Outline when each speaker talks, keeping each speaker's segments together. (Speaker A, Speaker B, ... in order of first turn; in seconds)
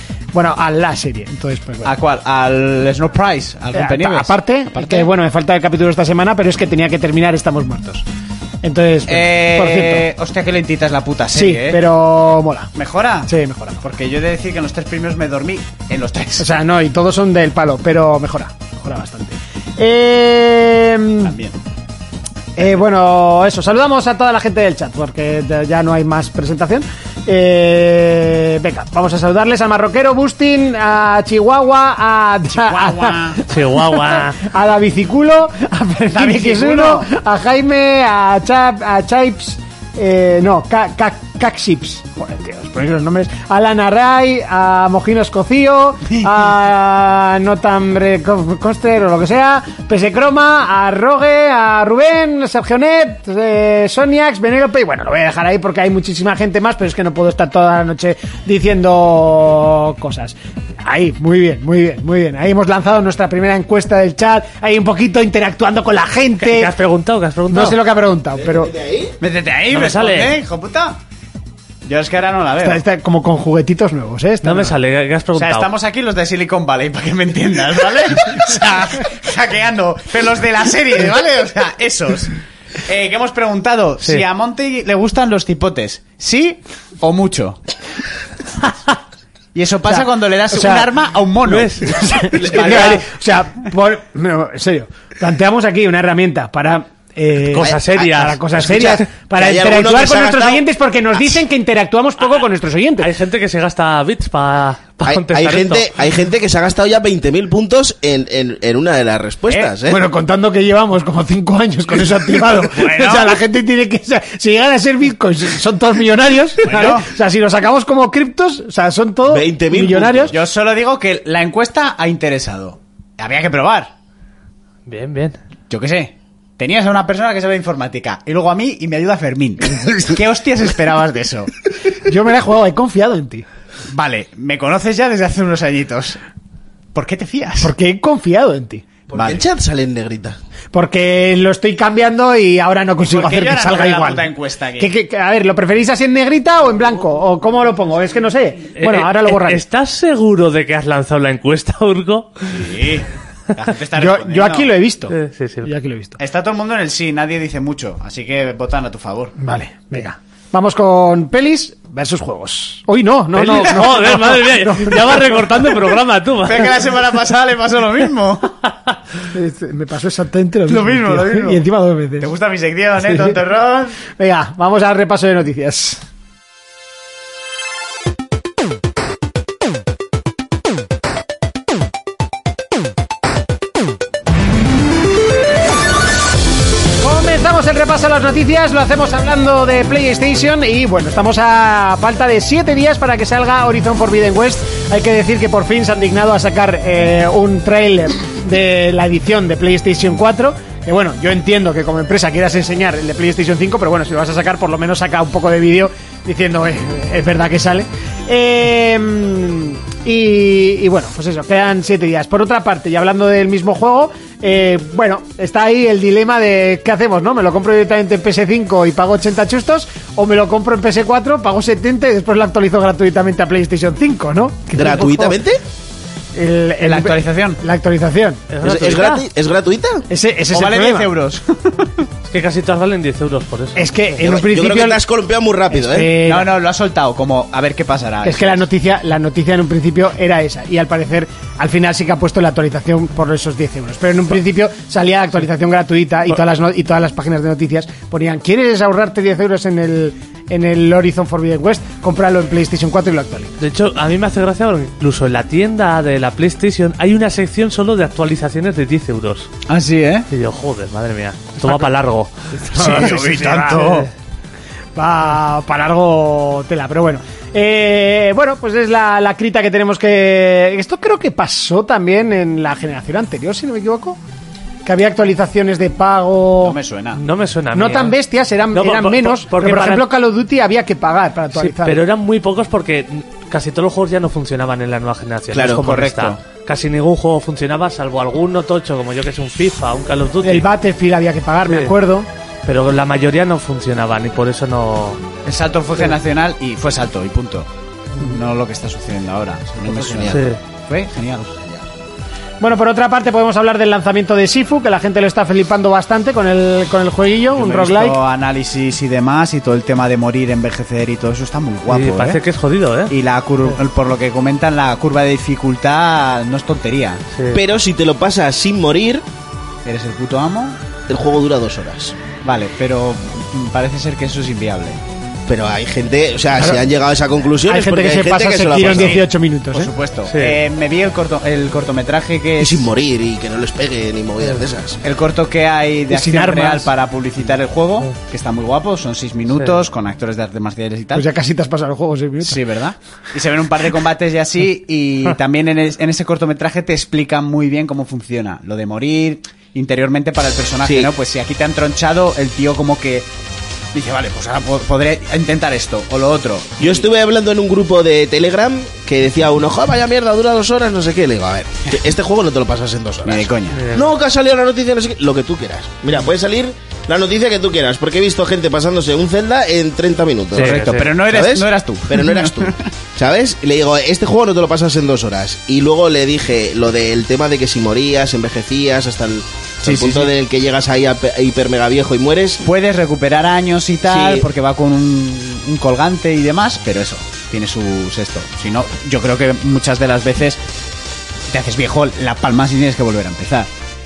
Speaker A: 0.3-1.9, 3.7-8.0, 8.6-10.1, 11.3-12.7, 13.3-13.8, 16.4-21.3, 22.6-66.7, 67.5-68.7, 72.6-74.8, 90.5-90.9, 91.9-103.1, 109.9-120.3, 132.0-133.4, 137.6-138.9, 140.7-149.6, 154.0-156.2, 159.4-165.8, 169.3-172.3, 173.0-173.4, 174.2-176.0, 187.0-225.4, 226.3-229.0, 230.1-231.1, 233.8-235.0, 235.7-236.5, 238.2-253.5, 262.6-264.0, 265.0-274.2, 274.9-276.8, 277.7-282.0, 290.4-292.3, 302.6-308.2, 327.7-329.9, 336.1-336.9, 341.1-342.6
Speaker B: 1.8-5.1, 9.1-11.8, 12.8-16.5, 21.2-21.6, 32.5-33.4, 36.1-37.1, 69.2-71.0, 71.8-72.8, 75.3-82.3, 82.8-87.6, 89.5-93.0, 112.6-113.4, 116.6-117.1, 120.3-123.9, 125.7-131.5, 133.9-136.2, 136.9-137.7, 139.1-139.4, 143.0-144.9, 152.5-154.7, 156.2-159.3, 166.4-168.5, 170.7-171.6, 172.2-174.0, 226.8-227.6, 230.5-231.9, 236.2-238.7, 259.7-260.3, 262.7-264.1, 276.6-277.2, 285.7-286.4, 295.4-301.7, 307.5-312.4, 313.1-317.2, 319.9-320.8, 322.4-325.0, 328.9-332.9, 335.0-341.2, 342.4-353.3, 353.9-357.0, 363.2-363.8, 370.5-372.9, 379.8-380.3, 382.6-390.6, 391.5-393.7
Speaker C: 33.5-34.4, 66.4-67.8, 69.7-70.4, 74.4-75.7, 91.5-93.0, 97.5-98.4, 103.0-105.9, 124.9-125.4, 148.8-152.6, 155.1-155.7, 163.3-166.8, 228.5-229.2, 232.2-234.2, 253.6-259.5, 260.3-262.3, 277.1-278.1, 278.7-280.0, 281.6-290.7, 292.7-295.2, 300.3-300.6, 311.9-313.1, 317.4-317.6, 330.3-330.6, 363.8-364.1, 370.5-371.1
Speaker D: 68.4-69.2, 98.6-100.6, 105.0-110.0, 119.3-120.3, 139.1-140.4, 224.8-225.6, 228.6-230.1, 234.2-236.1, 285.5-285.8, 299.9-300.4, 317.5-319.2, 321.1-322.2, 325.5-329.2, 332.6-335.0, 350.8-351.1, 356.8-382.6, 384.1-384.5